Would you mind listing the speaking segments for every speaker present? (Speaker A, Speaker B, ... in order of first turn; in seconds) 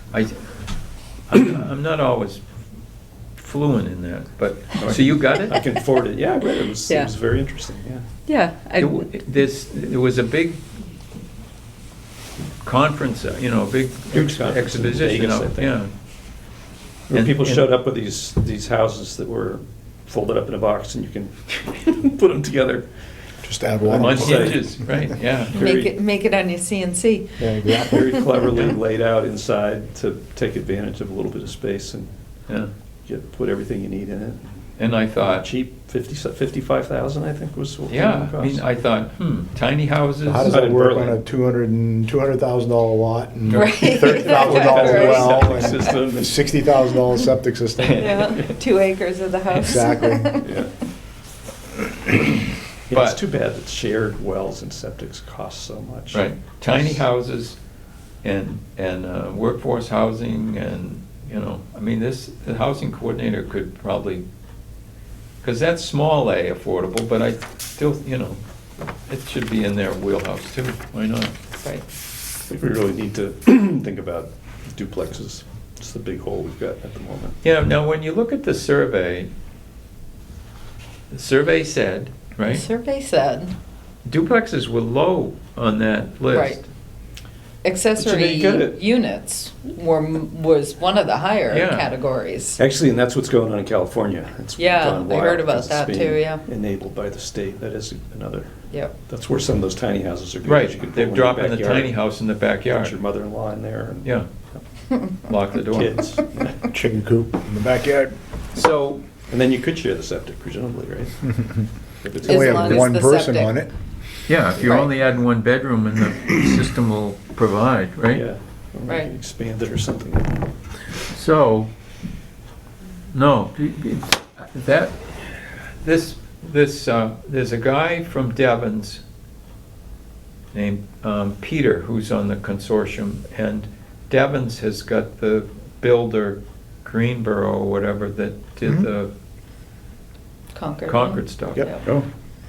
Speaker A: 0.1-0.5, 1.3-2.4, 3.4-5.6, 8.8-10.8, 12.6-15.9, 17.1-17.7, 23.9-25.6, 34.8-35.5, 37.9-40.6, 43.5-44.5, 47.8-48.4, 52.9-53.2, 56.1-57.6, 58.2-64.2, 65.4-68.4, 69.1-71.3, 77.4-79.3, 81.1-82.6, 84.0-86.7, 91.5-91.9, 100.4-103.0, 105.3-106.0, 114.3-118.3, 121.1-121.7, 123.1-129.0, 130.5-139.1, 140.9-141.7
Speaker B: 4.8-8.1, 14.1-15.8, 17.1-22.9, 23.8-24.7, 25.5-25.9, 27.9-32.2, 33.1-34.6, 35.2-38.7, 40.4-41.2, 44.2-46.5, 50.4-50.7, 52.9-57.0, 72.5-77.4, 88.0-88.8, 92.6-102.0, 102.7-104.6, 105.7-106.7, 108.5-112.9, 118.1-120.5
Speaker C: 8.3-9.1, 25.6-28.2, 43.5-45.8, 48.0-50.5, 71.6-71.8, 82.5-83.5, 86.3-86.6, 87.6-92.6, 94.6-96.4, 112.2-113.6, 114.6-114.9, 140.5-141.8
Speaker D: 23.4-24.9, 27.4-28.1, 40.3-48.3, 49.5-50.4, 106.7-108.2, 112.2-113.7, 138.6-138.9, 141.6-142.1